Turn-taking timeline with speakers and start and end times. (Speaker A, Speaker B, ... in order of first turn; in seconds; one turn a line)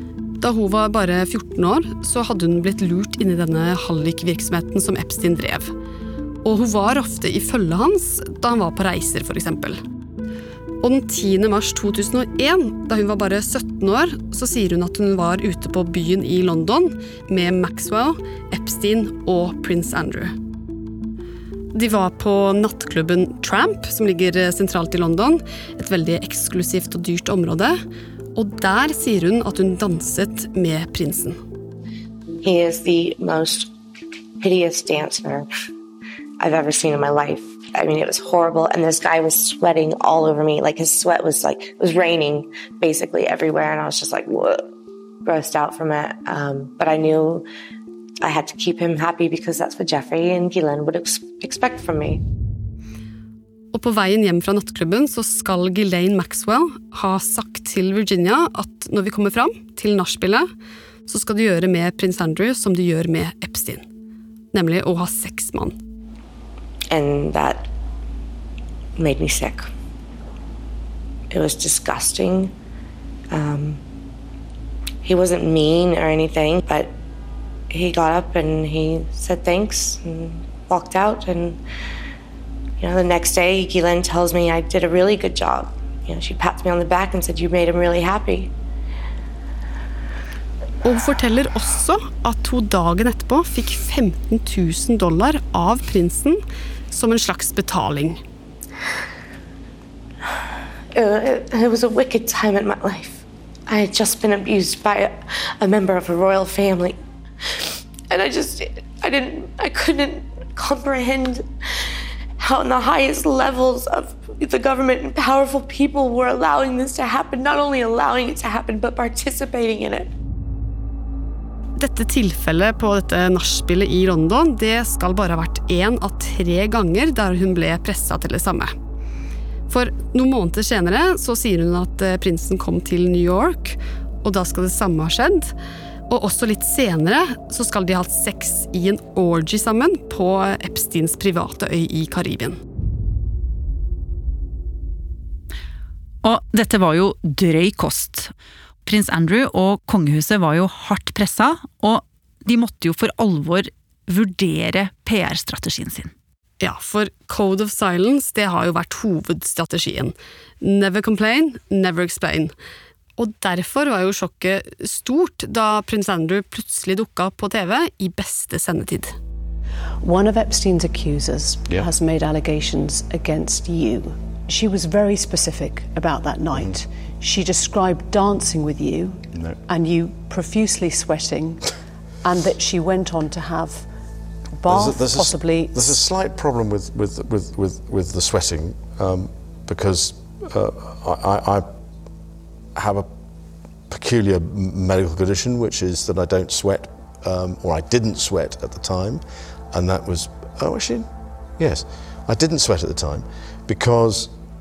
Speaker A: 0.4-5.7
Speaker A: 6.5-9.8
Speaker A: 10.8-20.4
Speaker A: 21.7-27.8
Speaker A: 28.4-31.4
Speaker B: 32.4-33.7
Speaker B: 34.4-35.5
Speaker B: 36.4-44.6
Speaker B: 45.2-47.5
Speaker B: 48.2-52.2
Speaker A: 53.7-60.5
Speaker A: 61.1-63.9
Speaker A: 64.5-65.8
Speaker B: 66.9-67.7
Speaker B: 69.0-69.7
Speaker B: 71.3-72.5
Speaker B: 73.3-73.8
Speaker B: 75.0-76.9
Speaker B: 77.7-81.6
Speaker B: 82.8-88.5
Speaker A: 90.8-96.4
Speaker A: 96.9-98.2
Speaker B: 100.9-107.0
Speaker B: 108.1-111.5
Speaker B: 112.4-120.1
Speaker A: 121.8-128.7
Speaker A: 129.7-135.5
Speaker A: 136.1-142.6
Speaker C: 146.2-148.3
Speaker C: 148.8-156.1
Speaker A: 156.6-162.5
Speaker A: 163.2-169.1
Speaker D: 170.0-181.7
Speaker E: 176.5-176.8
Speaker E: 179.3-179.6
Speaker D: 182.2-183.8
Speaker D: 184.6-186.0
Speaker E: 184.7-191.7
Speaker E: 192.8-193.1
Speaker E: 193.9-201.1
Speaker E: 201.6-204.3